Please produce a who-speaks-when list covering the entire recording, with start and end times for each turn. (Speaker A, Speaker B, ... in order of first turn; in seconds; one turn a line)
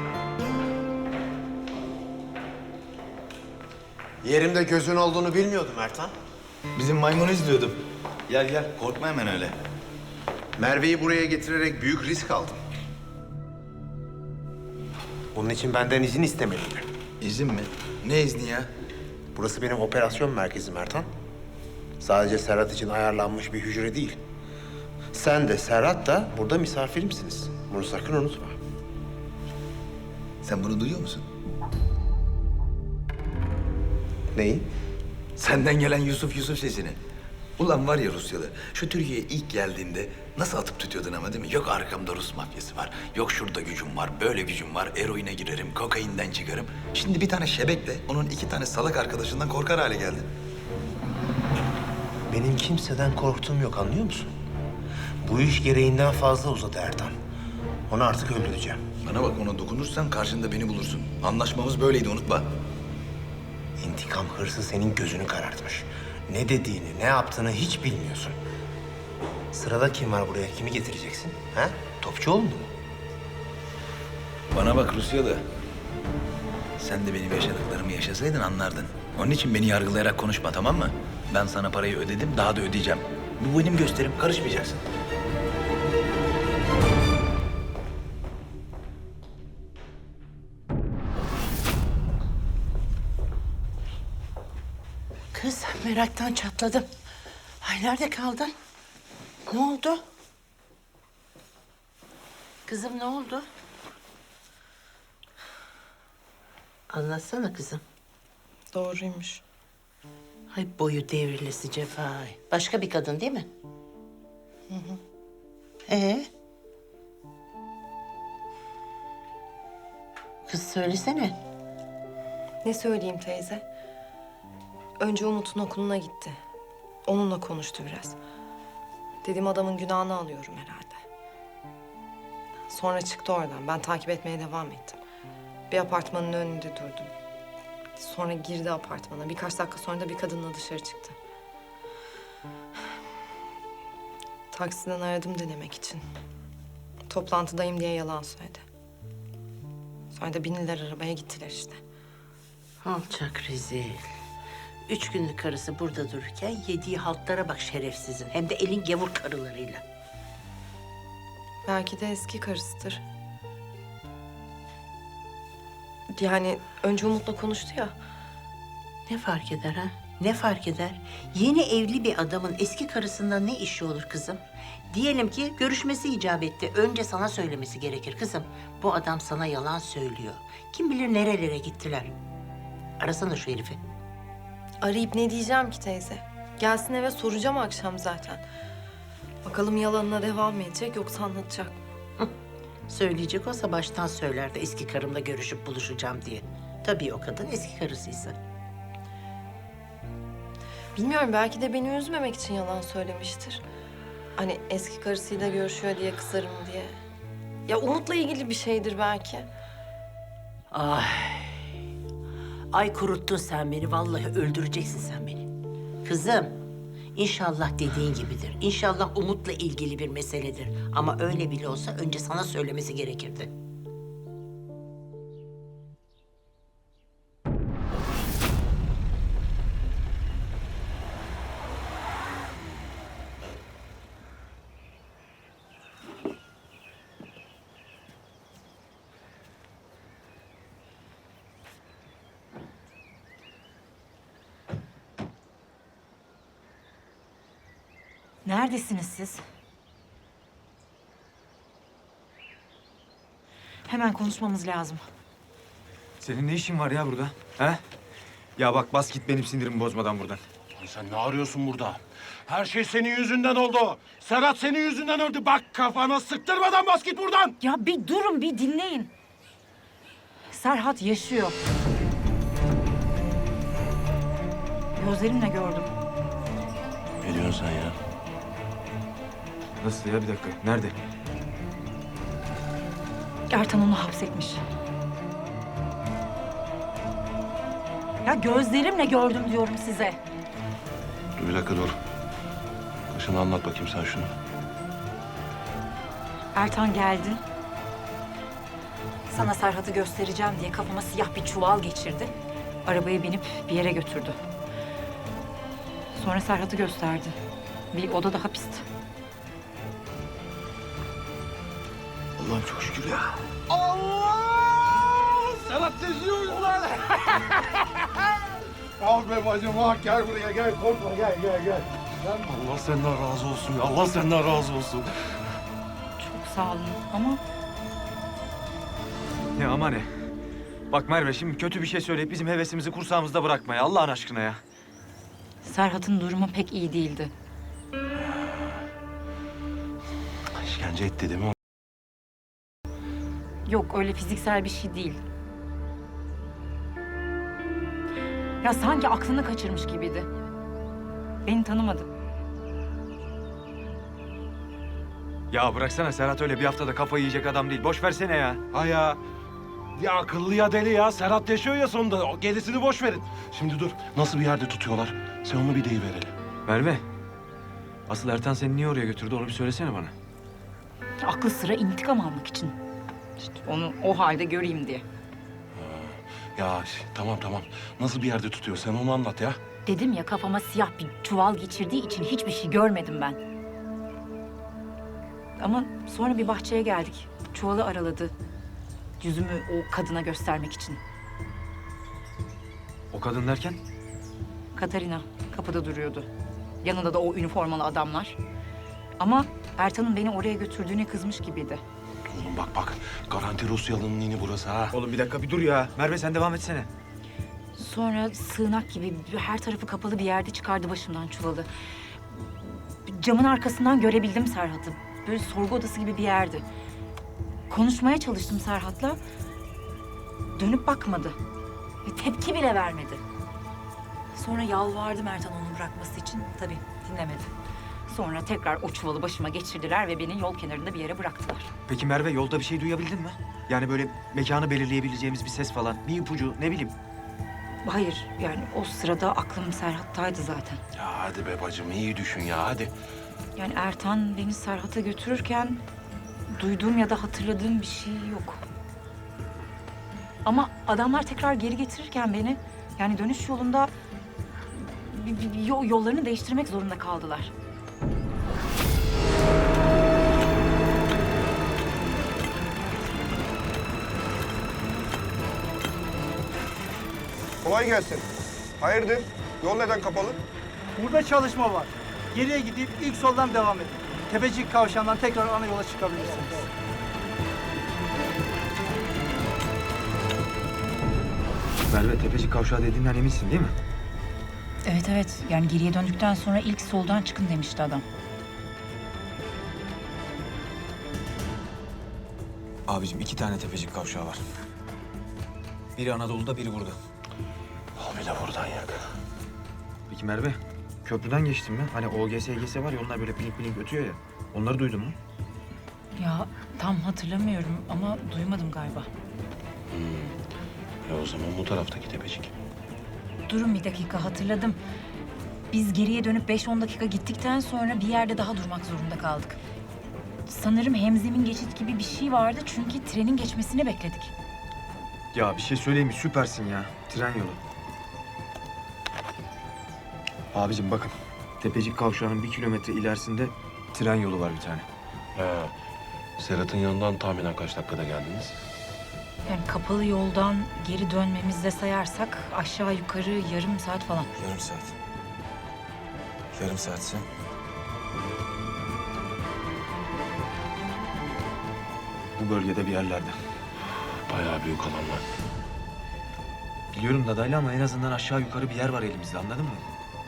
Speaker A: 4.2-6.1
Speaker B: 6.7-9.5
Speaker A: 10.6-12.6
Speaker A: 15.3-16.9
Speaker B: 17.2-18.7
Speaker A: 19.3-21.1
Speaker A: 22.0-24.2
Speaker A: 25.1-28.6
Speaker B: 30.4-31.2
Speaker A: 34.3-34.6
Speaker B: 35.4-37.0
Speaker B: 37.6-50.2
Speaker A: 52.3-54.3
Speaker A: 55.2-57.1
Speaker A: 57.9-58.8
Speaker B: 59.0-62.5
Speaker A: 63.8-68.3
Speaker A: 69.5-72.7
Speaker B: 74.5-75.4
Speaker B: 76.8-84.8
Speaker C: 95.3-96.9
Speaker C: 97.6-98.5
Speaker C: 99.5-100.0
Speaker C: 102.7-103.5
Speaker C: 106.9-107.8
Speaker D: 108.7-109.4
Speaker C: 110.5-113.5
Speaker D: 114.7-115.0
Speaker C: 115.9-116.3
Speaker C: 120.5-121.4
Speaker D: 122.6-123.6
Speaker D: 125.0-126.4
Speaker D: 127.0-128.2
Speaker D: 129.2-131.0
Speaker D: 132.7-135.0
Speaker D: 135.7-137.1
Speaker D: 138.0-141.2
Speaker D: 144.5-146.0
Speaker D: 147.1-148.6
Speaker D: 150.1-151.8
Speaker C: 152.8-154.0
Speaker C: 154.9-159.8
Speaker D: 161.6-163.0
Speaker D: 166.1-167.9
Speaker C: 169.1-182.1
Speaker C: 183.0-183.8
Speaker D: 184.8-188.4
Speaker D: 189.4-191.7
Speaker C: 192.9-198.3
Speaker D: 200.9-203.6
Speaker D: 204.4-206.9
Speaker D: 207.7-209.5
Speaker C: 210.7-211.6
Speaker C: 212.7-215.5
Speaker C: 216.0-216.5
Speaker C: 217.1-223.5
Speaker E: 248.4-249.4
Speaker E: 253.9-255.0
Speaker F: 256.2-257.8
Speaker F: 258.6-260.4
Speaker G: 260.8-267.5
Speaker E: 267.6-269.1
Speaker E: 270.5-271.6
Speaker E: 274.9-275.9
Speaker G: 277.2-277.9
Speaker F: 279.8-280.9
Speaker E: 283.5-284.6
Speaker E: 288.2-290.2
Speaker G: 291.4-292.0
Speaker G: 293.1-294.3
Speaker E: 296.5-297.4
Speaker E: 299.3-302.3
Speaker E: 302.8-304.4
Speaker E: 306.1-307.4
Speaker E: 307.9-308.9
Speaker B: 312.4-313.3
Speaker G: 322.2-325.1
Speaker E: 326.2-327.4
Speaker F: 329.6-330.1
Speaker F: 330.9-334.6
Speaker E: 335.6-337.3
Speaker G: 338.1-338.8
Speaker G: 340.5-341.5
Speaker E: 343.6-345.2
Speaker E: 348.6-350.3
Speaker E: 351.4-352.1
Speaker F: 355.5-358.6
Speaker G: 358.7-359.1
Speaker G: 360.0-366.3
Speaker F: 366.7-367.0
Speaker F: 368.1-370.1
Speaker E: 371.2-372.8
Speaker E: 373.4-375.0
Speaker G: 375.7-379.6
Speaker E: 379.9-383.4
Speaker E: 385.6-388.3
Speaker E: 389.2-391.0
Speaker F: 393.1-393.8
Speaker E: 394.7-396.3
Speaker E: 396.8-398.4
Speaker E: 399.2-401.8
Speaker G: 402.3-404.9
Speaker F: 404.9-406.9
Speaker E: 407.7-411.7
Speaker E: 413.0-416.6
Speaker E: 417.7-419.2
Speaker E: 420.5-421.4
Speaker E: 422.0-423.2
Speaker E: 424.3-427.5
Speaker E: 428.1-431.7
Speaker F: 431.9-436.9
Speaker E: 437.8-440.8
Speaker G: 440.9-442.9
Speaker E: 443.6-445.8
Speaker E: 446.5-448.6
Speaker E: 450.4-453.9
Speaker E: 454.7-457.5
Speaker H: 467.6-468.2
Speaker H: 468.8-470.4
Speaker I: 471.0-476.6
Speaker F: 481.9-483.7
Speaker E: 484.8-488.0
Speaker F: 492.9-494.4
Speaker F: 495.9-497.0
Speaker G: 497.9-498.9
Speaker F: 500.1-505.1
Speaker E: 506.2-509.1
Speaker G: 509.9-510.3
Speaker G: 511.1-512.5
Speaker E: 513.5-514.8
Speaker E: 515.7-519.6
Speaker E: 520.5-524.3
Speaker F: 525.3-527.6
Speaker F: 530.5-534.8
Speaker G: 535.3-535.7
Speaker G: 536.4-538.6
Speaker E: 539.5-544.3
Speaker F: 544.4-544.9
Speaker F: 546.5-547.3
Speaker F: 552.4-553.4
Speaker G: 554.3-555.2
Speaker F: 556.9-559.8